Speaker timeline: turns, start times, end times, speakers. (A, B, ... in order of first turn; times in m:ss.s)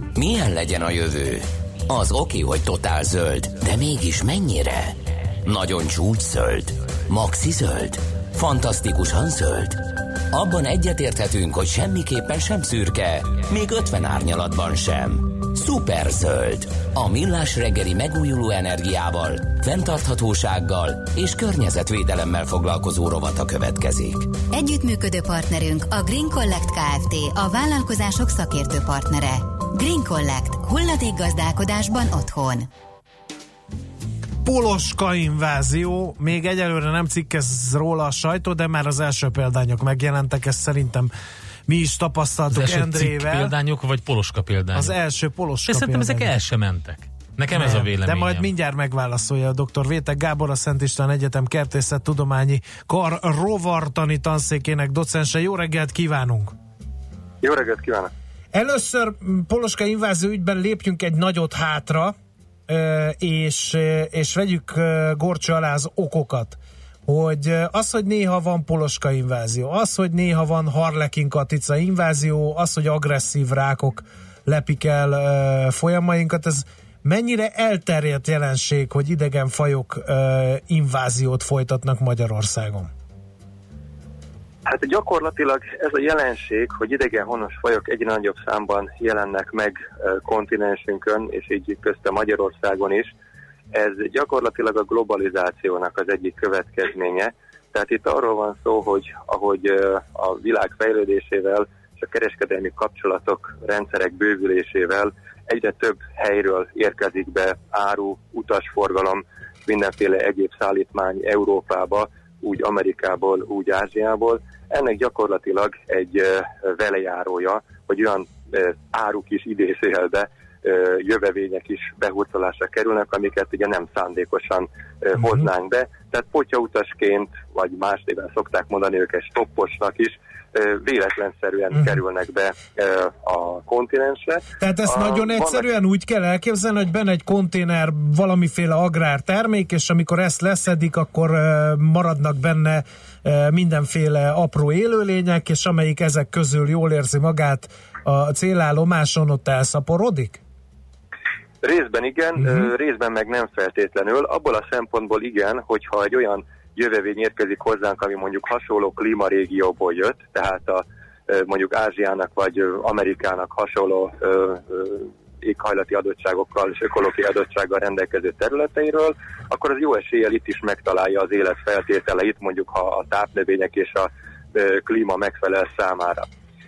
0:00.1-0:24.3 A
0:24.5-0:32.7 B
0:34.4-0:41.1 C
0:41.7-0:43.5 C
0:42.5-0:45.0 D
0:44.7-0:46.3 C
0:45.7-0:48.5 D
0:47.5-0:56.5 C
0:57.4-0:58.1 E
0:58.5-1:02.1 C
1:02.7-1:22.9 C
1:24.6-1:33.1 E
1:33.7-2:15.6 E
2:14.6-2:30.4 C
2:31.6-2:56.3 E